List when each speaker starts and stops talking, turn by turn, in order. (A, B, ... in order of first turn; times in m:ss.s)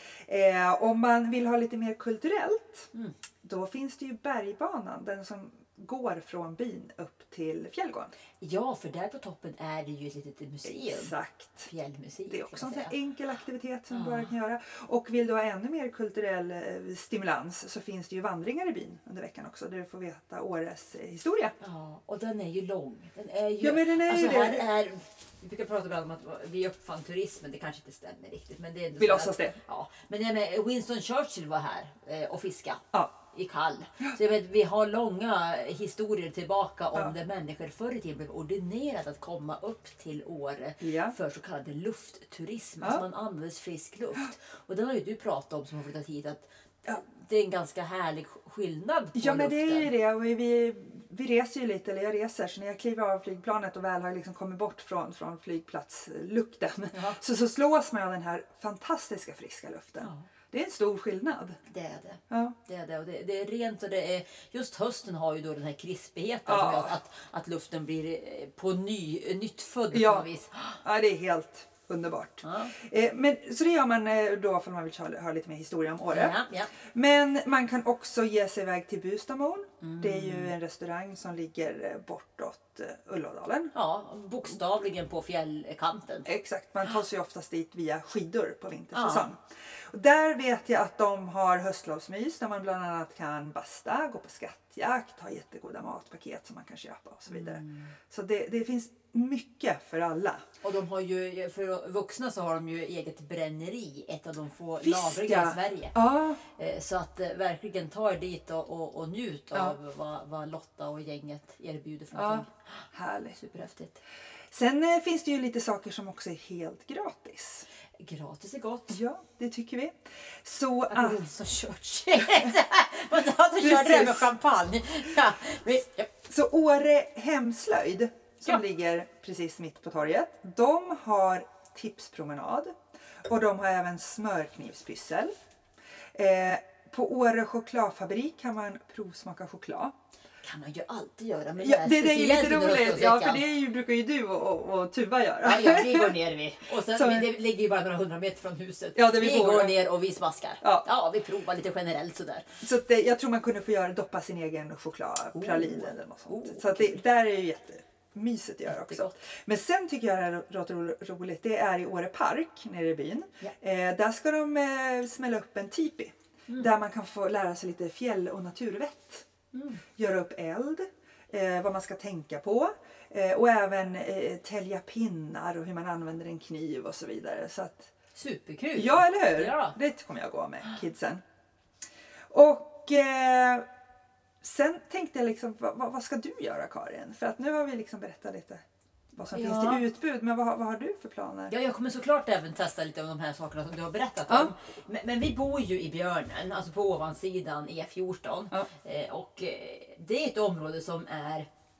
0:00.2-0:02.9 A
0:03.4-0:08.1 A
0:08.4-0:11.1 B
0:10.6-0:11.7 A
0:11.6-0:12.9 B
0:12.3-0:21.5 A
0:13.9-0:14.3 B
0:21.6-0:49.9 B
0:23.6-0:24.6 A
0:29.0-0:29.6 A
0:40.8-0:41.1 A
0:49.1-1:01.6 A
0:56.9-0:57.2 B
1:00.0-1:00.3 B
1:01.7-1:10.8 B
1:02.3-1:02.6 A
1:06.4-1:06.9 A
1:09.9-1:10.3 A
1:10.8-1:16.4 A
1:12.4-1:12.7 B
1:16.1-1:16.7 B
1:16.9-1:23.7 A
1:19.8-1:20.5 B
1:23.7-1:26.3 B
1:26.2-1:40.4 A
1:28.9-1:29.3 B
1:37.3-1:37.9 B
1:40.6-1:52.8 B
1:44.8-1:46.4 A
1:52.1-1:53.4 A
1:53.3-1:54.0 B
1:54.5-1:57.6 A
1:58.0-1:59.0 B
1:58.9-2:01.2 A
2:00.9-2:06.1 B
2:03.6-2:04.3 A
2:06.3-2:12.7 A
2:13.2-2:15.3 A
2:16.1-2:19.9 A
2:20.4-2:23.4 B
2:21.6-2:26.2 A
2:25.4-2:32.6 B
2:26.9-2:27.3 A
2:28.9-2:29.8 A
2:32.6-2:49.2 A
2:35.3-2:37.0 B
2:38.7-2:39.1 B
2:49.5-2:49.8 B
2:50.0-2:57.9 A
2:58.1-2:59.8 B
2:58.7-3:01.2 A
3:02.3-3:03.6 A
3:04.4-3:08.6 A
3:09.1-3:11.5 A
3:09.3-3:09.8 B
3:11.5-3:21.5 B